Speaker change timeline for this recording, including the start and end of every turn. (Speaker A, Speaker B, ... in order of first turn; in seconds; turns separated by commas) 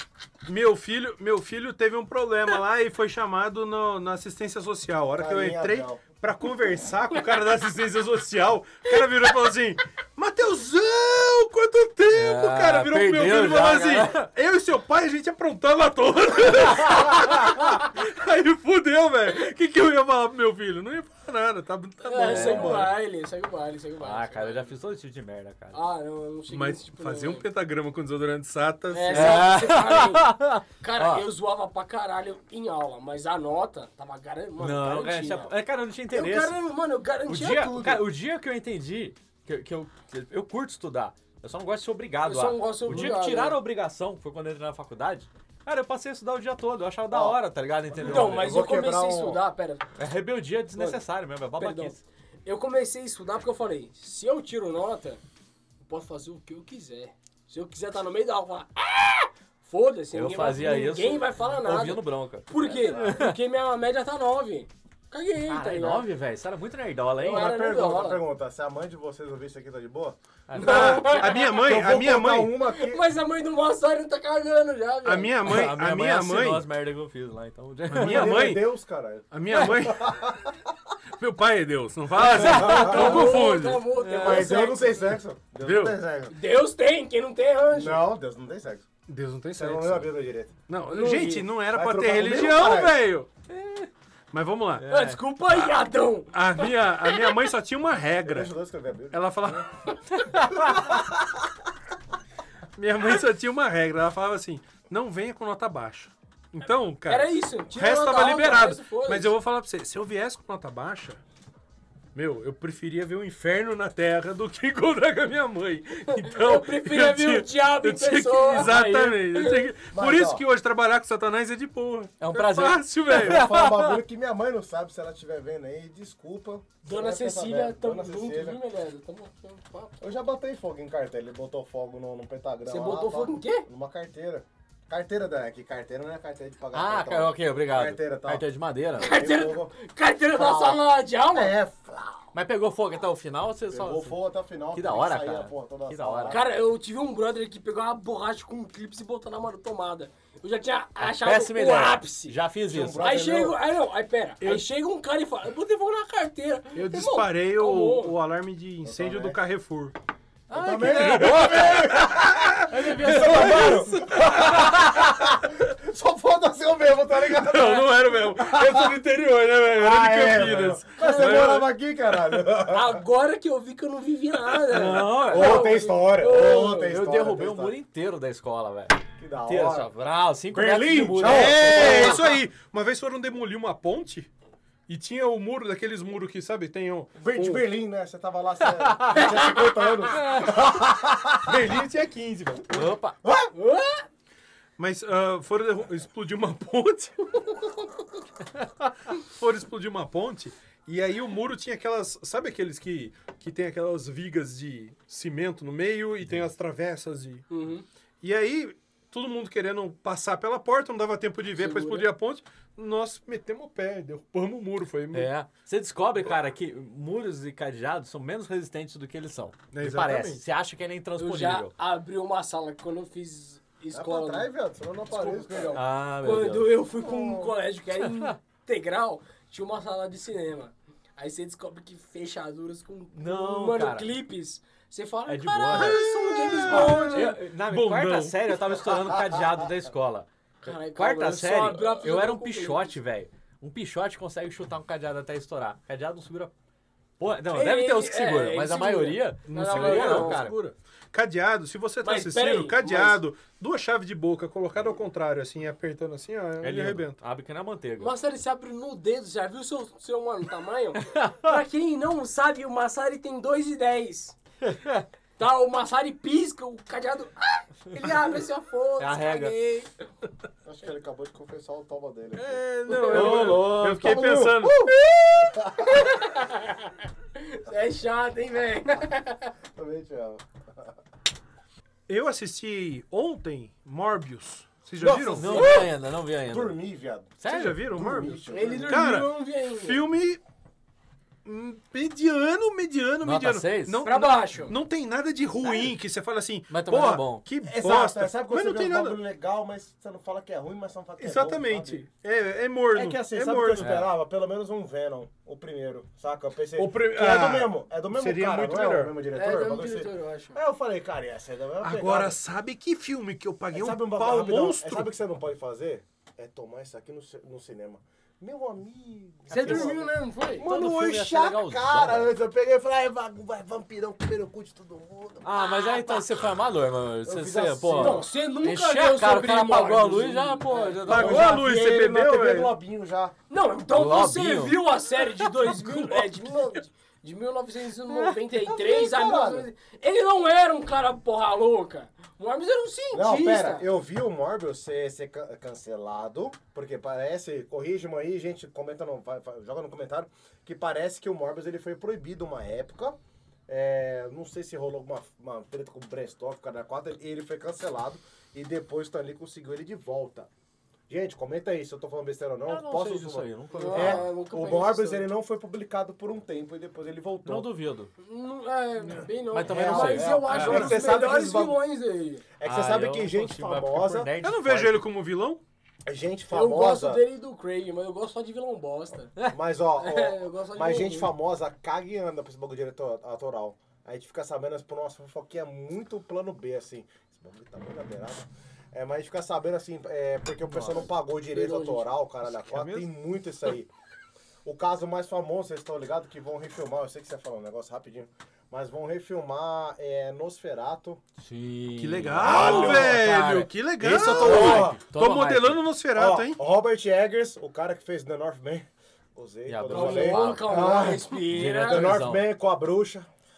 Speaker A: 0.4-22.9, Speaker B: 5.2-6.0, Speaker C: 12.1-14.3, Speaker D: 22.0-24.8, Speaker C: 22.3-22.9, Speaker C: 24.0-25.8, Speaker D: 25.7-27.4, Speaker A: 26.5-29.5, Speaker D: 28.9-35.5, Speaker C: 29.1-31.2, Speaker C: 34.6-36.6, Speaker D: 36.1-38.1, Speaker C: 37.3-48.6, Speaker D: 42.2-43.6, Speaker B: 47.1-47.4, Speaker B: 47.9-49.4, Speaker D: 48.0-49.9, Speaker C: 50.0-52.0, Speaker D: 50.8-51.0, Speaker D: 51.6-55.2, Speaker D: 55.9-66.1, Speaker C: 60.1-63.4, Speaker C: 65.5-67.5, Speaker D: 67.2-68.2, Speaker B: 67.2-70.2, Speaker C: 70.5-71.3, Speaker D: 70.6-71.6, Speaker A: 70.6-72.5, Speaker B: 71.4-73.0, Speaker D: 72.7-75.4, Speaker A: 75.0-76.7, Speaker C: 75.4-78.4, Speaker A: 77.9-78.6, Speaker B: 78.0-80.7, Speaker A: 79.3-80.2, Speaker A: 81.1-83.9, Speaker B: 82.2-83.3, Speaker C: 82.2-83.0, Speaker D: 82.4-85.2, Speaker C: 84.0-84.6, Speaker B: 84.2-86.3, Speaker A: 85.6-86.0, Speaker D: 86.3-88.1, Speaker B: 87.7-88.9, Speaker A: 89.1-90.1, Speaker B: 89.5-90.5, Speaker A: 90.7-93.3, Speaker D: 90.9-91.5, Speaker B: 91.7-93.0, Speaker C: 93.5-93.9, Speaker A: 94.3-94.9, Speaker C: 94.8-95.2, Speaker D: 94.9-96.4, Speaker A: 96.3-98.5, Speaker B: 98.2-99.5, Speaker A: 99.1-99.7, Speaker B: 100.6-101.3, Speaker A: 102.8-111.2, Speaker D: 107.1-109.3, Speaker A: 112.1-123.5, Speaker D: 116.1-119.7, Speaker B: 119.8-120.4, Speaker C: 122.2-124.0, Speaker B: 123.1-128.6, Speaker D: 126.8-130.0, Speaker B: 130.0-138.4, Speaker D: 132.7-133.7, Speaker C: 136.7-139.2, Speaker D: 139.0-141.6, Speaker B: 139.0-139.8, Speaker B: 140.3-142.3, Speaker C: 142.3-144.2, Speaker B: 143.7-146.4, Speaker C: 144.7-146.4, Speaker D: 146.3-152.4, Speaker C: 151.0-153.1, Speaker B: 152.7-153.6, Speaker D: 153.0-158.2, Speaker A: 156.8-159.9, Speaker B: 158.8-159.4, Speaker C: 160.5-162.2, Speaker B: 160.5-169.0, Speaker A: 160.8-164.8, Speaker C: 162.7-164.7, Speaker A: 167.2-172.5, Speaker B: 169.7-173.0, Speaker D: 171.0-171.5, Speaker D: 172.7-176.9, Speaker C: 174.7-182.3, Speaker B: 175.0-177.8, Speaker B: 179.2-179.9, Speaker B: 180.5-182.2, Speaker A: 180.6-184.3, Speaker A: 184.9-187.6, Speaker B: 187.2-191.8, Speaker C: 188.8-189.3, Speaker D: 189.2-189.5, Speaker A: 191.4-192.9, Speaker C: 192.7-193.2, Speaker B: 193.2-193.5, Speaker D: 193.5-194.1, Speaker A: 194.8-197.6, Speaker A: 199.1-207.4, Speaker D: 207.5-207.8, Speaker A: 208.2-215.3, Speaker D: 211.6-212.1, Speaker C: 215.1-221.7, Speaker A: 219.7-220.4, Speaker D: 221.2-224.5, Speaker B: 223.9-225.8, Speaker D: 225.1-237.4, Speaker C: 225.7-226.8, Speaker B: 226.9-227.6, Speaker C: 228.0-228.3, Speaker C: 233.1-234.1, Speaker C: 235.3-246.5, Speaker A: 235.8-238.5, Speaker D: 240.6-243.0, Speaker C: 247.2-250.6, Speaker D: 247.5-250.5, Speaker A: 249.5-257.2, Speaker D: 252.0-253.2, Speaker C: 256.6-258.1, Speaker D: 258.0-264.4, Speaker C: 261.1-261.6, Speaker C: 264.6-265.1, Speaker D: 265.4-269.9, Speaker C: 269.0-269.6, Speaker B: 270.6-276.1, Speaker A: 272.4-274.9, Speaker D: 272.9-273.4, Speaker C: 273.0-274.7, Speaker D: 274.8-279.5, Speaker B: 279.8-280.9, Speaker A: 282.1-285.7, Speaker B: 285.0-285.9, Speaker C: 285.3-286.8, Speaker D: 285.5-285.9, Speaker B: 286.5-289.0, Speaker C: 287.4-287.8, Speaker A: 287.5-290.4, Speaker D: 288.5-290.0, Speaker A: 291.4-299.2, Speaker C: 293.2-294.0, Speaker D: 294.0-294.8, Speaker C: 296.7-297.4, Speaker B: 297.6-302.1, Speaker A: 301.2-303.9, Speaker B: 302.9-312.4, Speaker C: 303.8-304.1, Speaker A: 306.8-309.1, Speaker D: 309.3-310.6, Speaker A: 311.8-315.1, Speaker B: 313.7-325.6, Speaker C: 319.5-320.0, Speaker D: 319.5-320.7, Speaker C: 320.6-322.3, Speaker C: 325.4-331.6, Speaker B: 327.2-328.3, Speaker D: 327.9-331.5, Speaker B: 330.7-333.3, Speaker A: 331.1-332.7, Speaker D: 333.5-343.9, Speaker C: 333.9-334.8, Speaker B: 335.7-336.8, Speaker B: 338.6-339.7, Speaker B: 343.1-360.5, Speaker B: 361.1-367.7, Speaker C: 362.7-364.3, Speaker D: 363.7-365.3, Speaker C: 367.4-368.1, Speaker D: 368.2-372.4, Speaker C: 369.5-370.9, Speaker B: 369.6-371.8, Speaker A: 370.5-371.2, Speaker B: 372.6-374.3, Speaker C: 372.6-375.1, Speaker A: 374.4-375.6, Speaker B: 376.1-377.2, Speaker D: 376.5-379.3, Speaker B: 379.4-393.9, Speaker D: 380.0-381.3, Speaker D: 391.5-392.1, Speaker A: 392.5-393.1, Speaker B: 394.6-401.2, Speaker C: 401.4-405.9, Speaker A: 402.0-406.6, Speaker B: 402.4-403.2, Speaker B: 404.0-405.0, Speaker B: 406.1-413.3, Speaker C: 409.7-412.5, Speaker D: 409.9-412.2